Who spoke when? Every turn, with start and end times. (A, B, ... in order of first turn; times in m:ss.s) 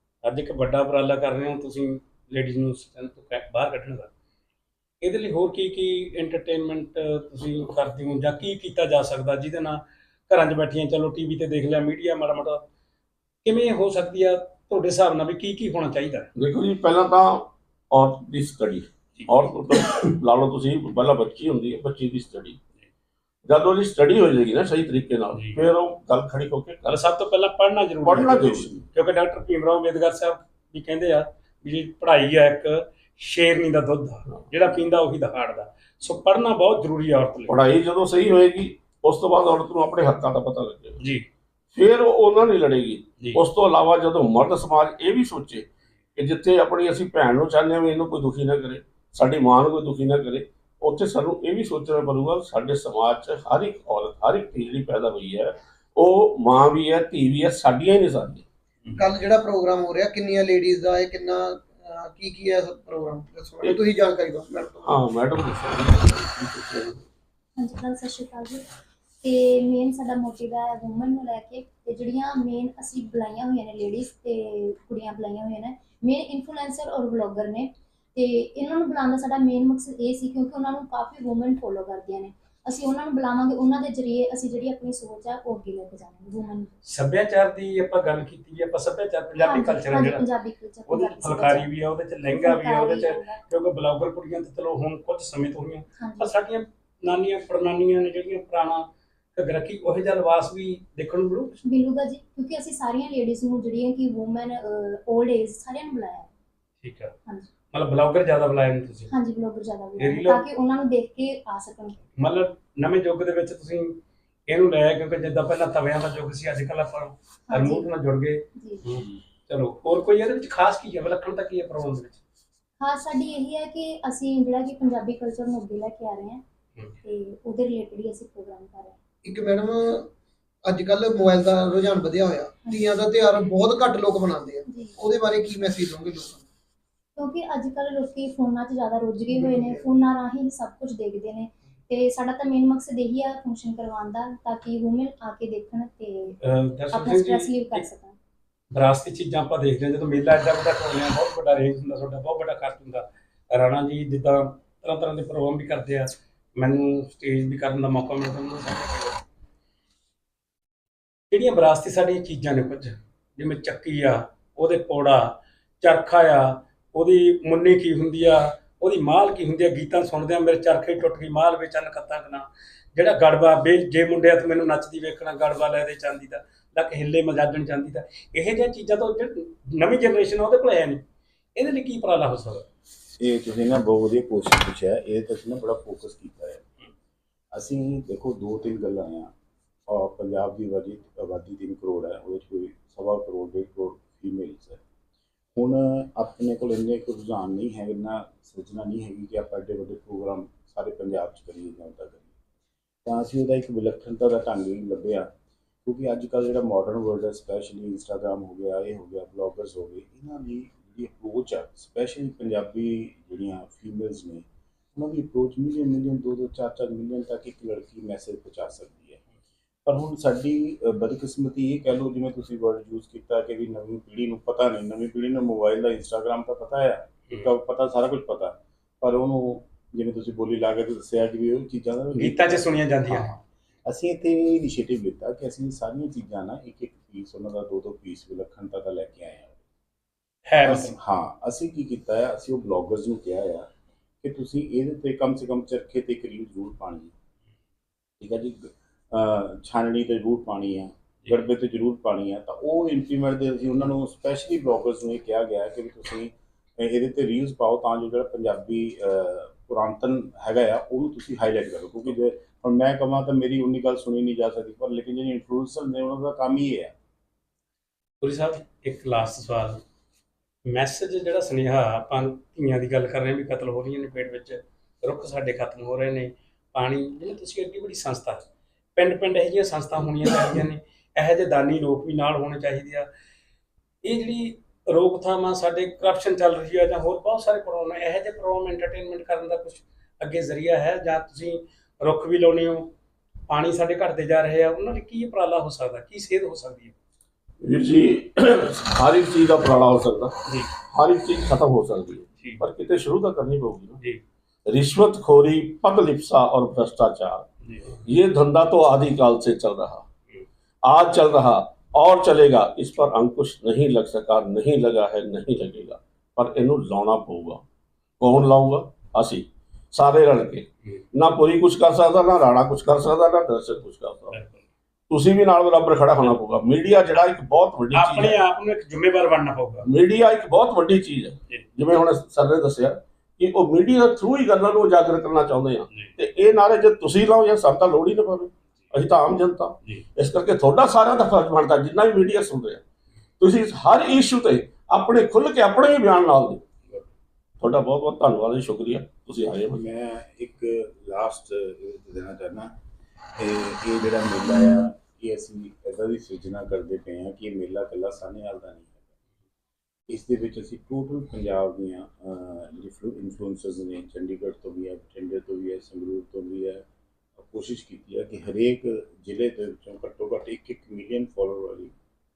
0:00.2-0:04.1 A
0:05.0-0:12.6 A
0:13.4-0:16.3 A
0:16.4-0:22.6 B
0:19.2-0:20.0 A
0:23.5-0:27.0 B
0:25.4-0:25.6 A
0:26.8-0:37.6 A
0:28.0-0:28.8 B
0:37.5-0:41.0 B
0:41.0-0:41.2 A
0:41.7-0:58.4 B
0:59.0-1:05.0 C
1:04.8-1:07.0 B
1:07.6-1:08.6 D
1:09.2-1:26.8 D
1:26.9-1:30.3 A
1:29.4-1:31.7 D
1:30.9-1:41.5 A
1:32.2-1:33.4 D
1:36.0-1:36.3 D
1:41.6-1:46.3 D
1:46.8-1:47.2 A
1:47.7-1:49.1 A
1:49.1-1:52.0 D
1:50.0-1:50.4 A
1:52.2-2:02.2 A
1:57.5-1:57.9 D
1:58.6-1:58.8 D
2:02.8-2:06.4 D
2:07.0-2:09.0 D
2:09.2-2:10.1 C
2:10.6-2:16.5 C
2:12.6-2:13.5 D
2:14.7-2:15.0 D
2:17.2-2:26.4 D
2:19.3-2:19.8 C
2:26.4-2:27.9 A
2:26.9-2:28.2 D
2:28.7-2:39.2 A
2:41.3-3:01.0 A
3:01.6-3:02.7 A
3:03.2-3:06.7 E
3:07.5-3:09.3 E
3:09.9-3:14.8 E
3:15.6-3:22.3 E
3:23.0-3:25.3 E
3:25.8-3:39.2 E
3:39.8-3:59.6 E
3:52.2-3:53.3 A
4:00.5-4:01.0 A
4:00.6-4:03.7 E
4:04.2-4:07.1 E
4:08.2-4:26.9 E
4:28.2-4:29.8 A
4:30.7-4:38.4 A
4:39.0-4:43.1 A
4:44.0-4:52.9 A
4:53.5-4:57.0 A
4:57.6-5:00.4 B
5:00.9-5:04.0 B
5:04.7-5:07.5 B
5:07.6-5:08.0 A
5:08.0-5:10.1 B
5:10.8-5:17.6 B
5:18.2-5:24.4 B
5:25.1-5:28.4 B
5:27.9-5:29.9 A
5:29.8-5:42.8 B
5:43.4-5:46.6 B
5:47.6-5:49.8 B
5:49.7-5:52.7 E
5:53.4-5:59.0 E
6:00.1-6:06.8 E
6:07.4-6:11.9 E